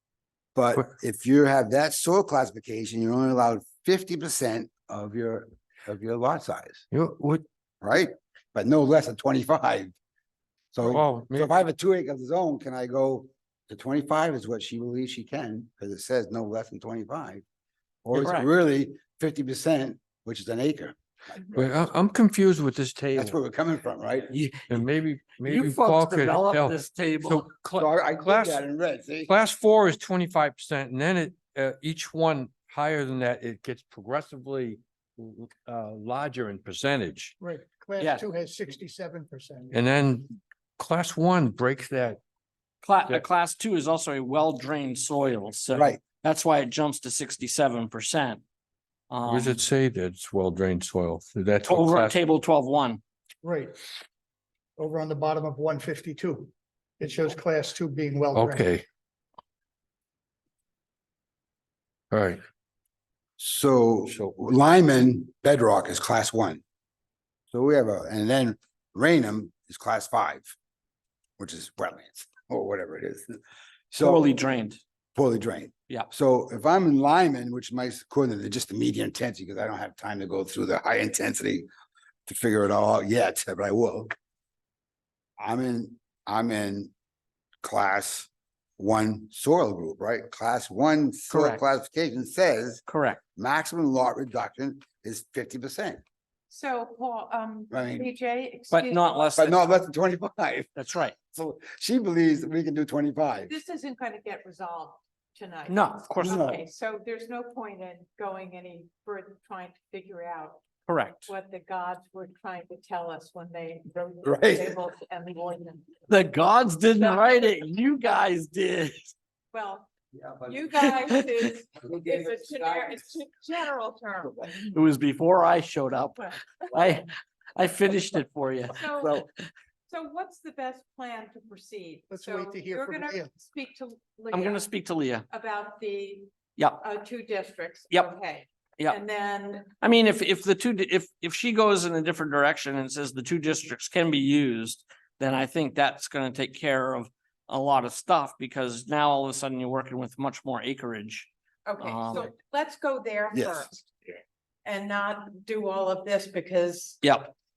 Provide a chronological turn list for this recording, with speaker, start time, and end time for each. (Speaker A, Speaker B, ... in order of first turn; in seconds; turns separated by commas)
Speaker A: 0.6-6.8, Speaker B: 6.9-7.4, Speaker A: 7.8-9.9, Speaker A: 10.7-17.4, Speaker B: 10.9-11.6, Speaker A: 18.1-21.6, Speaker C: 18.1-18.5, Speaker B: 21.5-23.4, Speaker A: 23.1-24.4, Speaker C: 24.3-24.8, Speaker B: 24.7-28.6, Speaker C: 25.4-27.5, Speaker A: 27.8-29.3, Speaker B: 29.3-37.4, Speaker D: 37.4-39.8, Speaker C: 38.0-38.3, Speaker B: 39.7-42.2, Speaker C: 42.8-48.4, Speaker A: 45.7-46.0, Speaker C: 49.1-49.6, Speaker B: 49.3-52.2, Speaker C: 51.7-53.0, Speaker D: 53.4-53.8, Speaker D: 54.8-58.7, Speaker B: 58.4-58.9, Speaker B: 62.1-62.4, Speaker A: 63.4-66.6, Speaker A: 67.5-70.5, Speaker A: 71.4-73.4, Speaker A: 73.9-74.3, Speaker C: 74.0-74.8, Speaker A: 75.2-81.7, Speaker A: 82.3-84.1, Speaker A: 85.4-86.9, Speaker A: 87.6-92.8, Speaker C: 91.3-91.6, Speaker C: 92.9-93.2, Speaker A: 93.4-96.0, Speaker E: 96.5-99.5, Speaker A: 97.7-98.1, Speaker C: 98.7-99.6, Speaker A: 99.4-103.5, Speaker C: 100.8-101.2, Speaker E: 103.5-110.6, Speaker C: 105.7-106.6, Speaker A: 106.2-106.6, Speaker C: 110.9-111.3, Speaker E: 111.3-116.0, Speaker A: 114.2-114.8, Speaker C: 116.1-119.1, Speaker E: 117.0-117.5, Speaker E: 119.5-119.9, Speaker E: 120.5-124.4, Speaker C: 120.8-121.4, Speaker C: 124.6-129.3, Speaker E: 128.7-129.2, Speaker E: 129.9-134.7, Speaker D: 132.1-133.4, Speaker C: 134.3-135.3, Speaker E: 135.3-136.3, Speaker C: 136.6-136.8, Speaker E: 136.8-139.7, Speaker C: 139.8-151.3, Speaker E: 151.7-153.9, Speaker C: 151.8-152.3, Speaker A: 153.3-153.7, Speaker E: 154.7-157.0, Speaker C: 157.0-157.3